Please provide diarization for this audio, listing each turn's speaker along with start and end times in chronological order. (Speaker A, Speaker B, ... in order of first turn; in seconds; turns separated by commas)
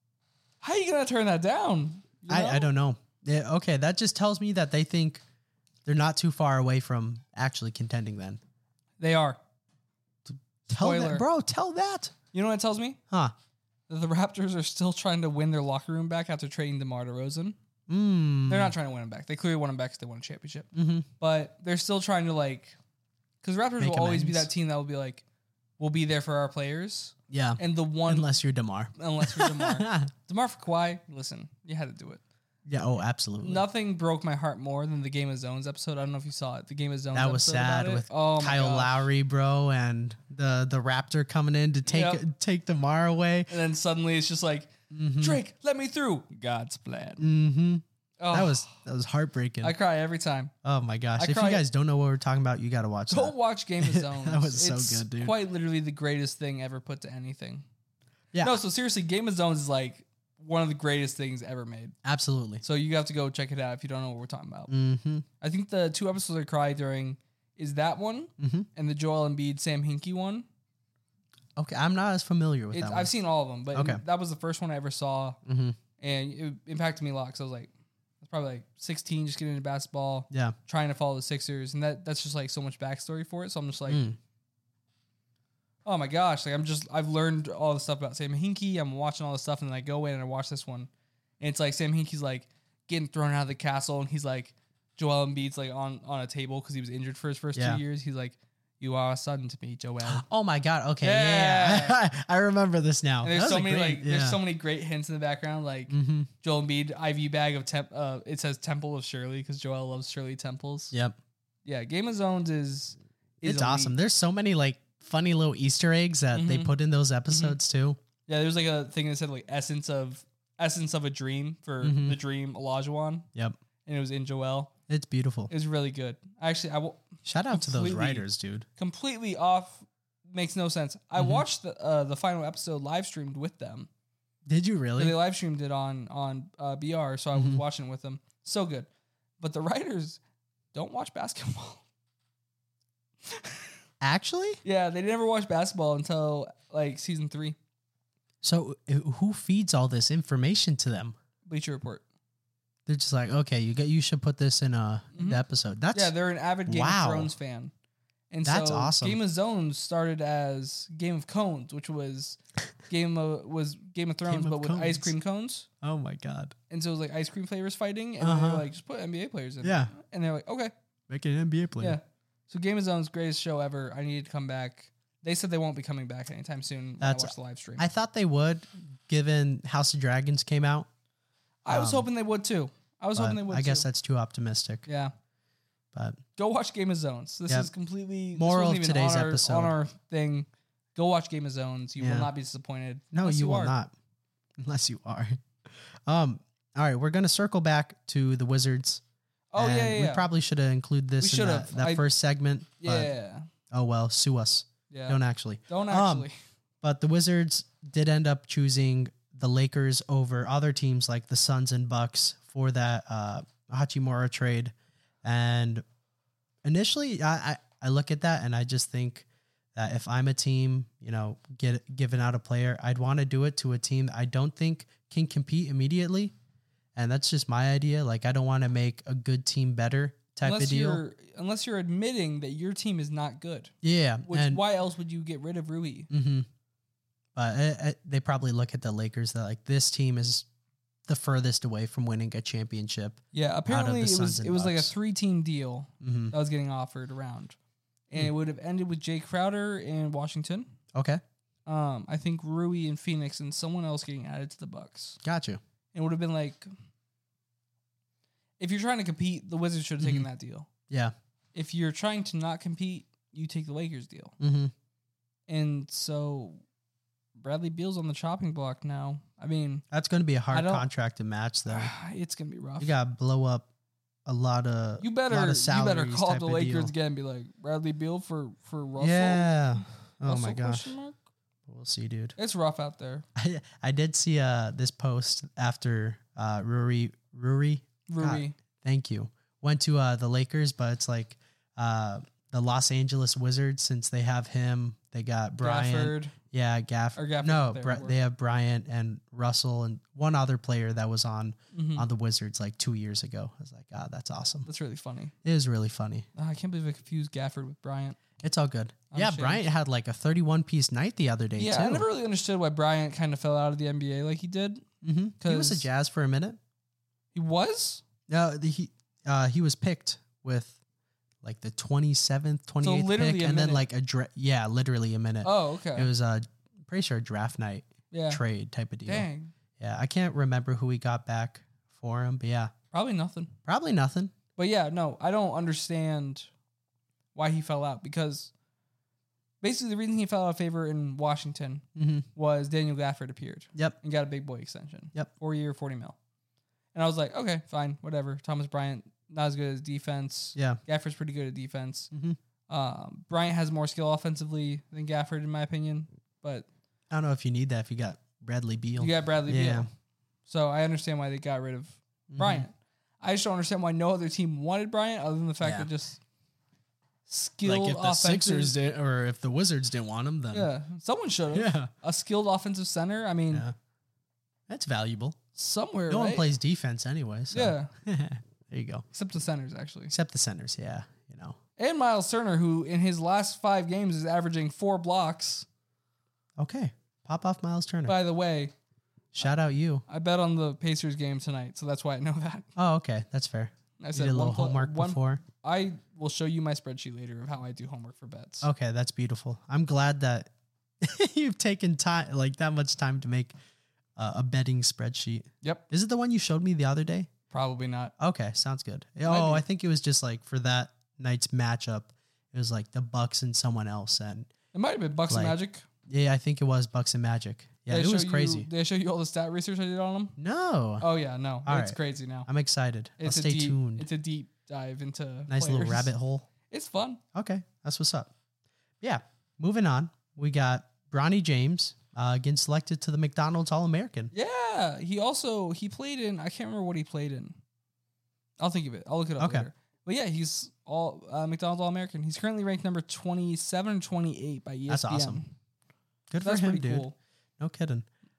Speaker A: 0.6-2.7, Speaker B: 2.3-5.2, Speaker B: 5.8-8.4, Speaker A: 9.0-9.4, Speaker B: 10.3-12.1, Speaker A: 10.8-11.2, Speaker A: 12.3-13.0, Speaker A: 13.9-17.6, Speaker B: 17.9-18.7, Speaker A: 18.5-20.7, Speaker B: 20.7-21.1, Speaker A: 21.2-22.8, Speaker A: 23.4-25.2, Speaker B: 23.8-24.5, Speaker A: 25.8-28.3, Speaker B: 27.3-30.1, Speaker A: 28.9-32.2, Speaker B: 32.6-33.6, Speaker A: 33.4-39.0, Speaker B: 37.1-43.5, Speaker A: 41.8-42.2, Speaker A: 43.5-47.2, Speaker B: 44.9-45.4, Speaker B: 47.2-49.8, Speaker A: 48.2-48.7, Speaker A: 49.6-50.5, Speaker B: 50.6-55.4, Speaker A: 51.2-51.6, Speaker A: 53.1-57.6, Speaker B: 58.3-58.6, Speaker A: 58.4-61.9, Speaker B: 62.0-62.6, Speaker A: 62.6-64.7, Speaker B: 64.7-65.2, Speaker A: 65.4-70.5, Speaker B: 68.4-68.7, Speaker B: 71.6-73.1, Speaker A: 72.7-75.4, Speaker B: 73.7-74.0, Speaker B: 75.4-75.8, Speaker A: 76.0-77.7, Speaker A: 78.2-84.0, Speaker B: 80.3-80.5, Speaker B: 83.9-84.2, Speaker A: 85.8-100.2, Speaker B: 97.5-97.8, Speaker B: 100.0-104.4, Speaker A: 101.0-102.0, Speaker A: 103.2-110.9, Speaker B: 105.9-106.3, Speaker B: 110.9-111.2, Speaker A: 111.6-113.9, Speaker B: 113.4-118.0, Speaker A: 116.3-116.7, Speaker A: 117.3-117.6, Speaker A: 118.3-123.3, Speaker B: 121.8-122.2, Speaker A: 123.8-124.7, Speaker B: 124.9-125.5, Speaker A: 125.5-128.2, Speaker B: 127.2-128.7, Speaker A: 128.8-133.9, Speaker B: 131.2-131.4, Speaker B: 134.5-135.2, Speaker A: 135.0-138.9, Speaker B: 137.3-137.6, Speaker A: 139.4-140.2, Speaker A: 140.7-141.8, Speaker A: 143.2-143.7, Speaker B: 144.0-144.6, Speaker A: 144.6-147.6, Speaker B: 148.4-151.2, Speaker A: 151.4-152.0, Speaker B: 152.9-156.1, Speaker A: 155.1-155.4, Speaker A: 155.9-157.7, Speaker B: 156.7-157.3, Speaker A: 158.3-165.7, Speaker B: 158.4-159.2, Speaker B: 164.2-165.1, Speaker B: 165.8-166.5, Speaker A: 166.7-170.7, Speaker B: 168.2-168.7, Speaker B: 169.6-169.9, Speaker B: 171.1-172.0, Speaker A: 171.8-177.8, Speaker B: 177.0-180.9, Speaker A: 181.6-183.9, Speaker B: 181.7-182.1, Speaker B: 183.2-184.8, Speaker A: 184.8-185.1, Speaker B: 185.9-186.2, Speaker A: 186.4-193.7, Speaker B: 188.3-189.8, Speaker B: 192.0-192.3, Speaker B: 193.1-193.9, Speaker B: 194.6-199.0, Speaker A: 199.5-200.2, Speaker B: 199.6-203.1, Speaker A: 201.2-202.1, Speaker A: 202.8-203.5, Speaker B: 203.7-206.3, Speaker A: 204.9-206.3, Speaker B: 206.8-214.7, Speaker B: 215.2-215.8, Speaker B: 216.6-226.3, Speaker B: 226.9-231.0, Speaker A: 230.4-233.7, Speaker B: 233.8-234.6, Speaker A: 234.3-236.1, Speaker B: 236.1-236.5, Speaker B: 237.3-240.4, Speaker B: 241.1-244.9, Speaker A: 243.3-247.6, Speaker B: 246.0-246.3, Speaker A: 248.1-250.7, Speaker B: 250.9-251.2, Speaker A: 251.7-255.2, Speaker B: 255.2-255.6, Speaker A: 255.9-256.7, Speaker A: 258.6-260.7, Speaker B: 260.0-260.3, Speaker B: 260.9-261.1, Speaker A: 261.5-264.3, Speaker B: 264.4-264.7, Speaker A: 265.5-266.6, Speaker A: 267.3-269.8, Speaker B: 269.9-271.9, Speaker A: 270.5-270.9, Speaker A: 271.6-272.9, Speaker B: 272.8-273.7, Speaker B: 274.2-276.9, Speaker A: 275.0-279.5, Speaker B: 279.0-280.9, Speaker A: 280.2-281.2, Speaker B: 281.7-282.4, Speaker A: 282.4-283.2, Speaker B: 283.4-304.7, Speaker A: 288.1-288.5, Speaker A: 295.6-296.3, Speaker A: 297.1-298.1, Speaker A: 301.7-302.0, Speaker A: 304.6-305.3, Speaker B: 305.4-306.2, Speaker A: 306.4-308.2, Speaker B: 308.4-312.1, Speaker A: 309.1-309.6, Speaker A: 311.6-314.8, Speaker B: 315.0-316.6, Speaker A: 315.4-315.9, Speaker A: 317.3-318.0, Speaker B: 318.3-320.8, Speaker B: 321.4-329.3, Speaker A: 322.8-323.8, Speaker A: 325.4-326.1, Speaker A: 328.1-328.4, Speaker A: 329.1-329.5, Speaker B: 329.8-332.7, Speaker A: 332.9-333.5, Speaker B: 333.6-334.3, Speaker A: 334.6-336.5, Speaker A: 337.3-338.5, Speaker A: 339.6-341.8, Speaker B: 341.9-342.3, Speaker A: 342.4-346.2, Speaker A: 346.9-352.1, Speaker B: 350.5-350.8, Speaker B: 352.1-352.4, Speaker A: 352.7-356.7, Speaker B: 357.1-359.9, Speaker A: 359.0-359.9, Speaker A: 360.5-366.2, Speaker B: 362.3-362.6, Speaker B: 365.6-365.9, Speaker A: 367.3-368.8, Speaker B: 367.6-370.7, Speaker A: 370.5-373.6, Speaker B: 371.5-371.9, Speaker B: 374.7-375.4, Speaker A: 375.6-376.4, Speaker B: 376.1-379.1, Speaker A: 377.5-377.9, Speaker A: 379.1-380.1, Speaker B: 380.1-381.6, Speaker A: 381.8-385.6, Speaker B: 386.6-388.2, Speaker A: 388.1-388.7, Speaker B: 389.3-390.0, Speaker A: 390.1-392.6, Speaker B: 392.8-395.4, Speaker A: 394.0-398.7, Speaker B: 398.6-400.5, Speaker B: 401.0-403.5, Speaker B: 404.1-407.3, Speaker A: 407.5-408.1, Speaker B: 408.2-414.5, Speaker A: 409.2-409.6, Speaker A: 414.7-415.9, Speaker B: 415.3-415.6, Speaker B: 416.1-418.7, Speaker A: 417.9-420.4, Speaker B: 420.4-421.1, Speaker A: 421.0-422.5, Speaker B: 421.6-424.1, Speaker A: 423.2-426.1, Speaker B: 425.5-426.5, Speaker A: 426.7-427.2, Speaker B: 427.3-428.3, Speaker B: 429.0-434.3, Speaker A: 434.3-437.6, Speaker A: 438.6-445.5, Speaker B: 439.4-439.7, Speaker B: 444.9-445.4, Speaker B: 446.3-447.1, Speaker A: 446.4-447.1, Speaker B: 447.6-448.1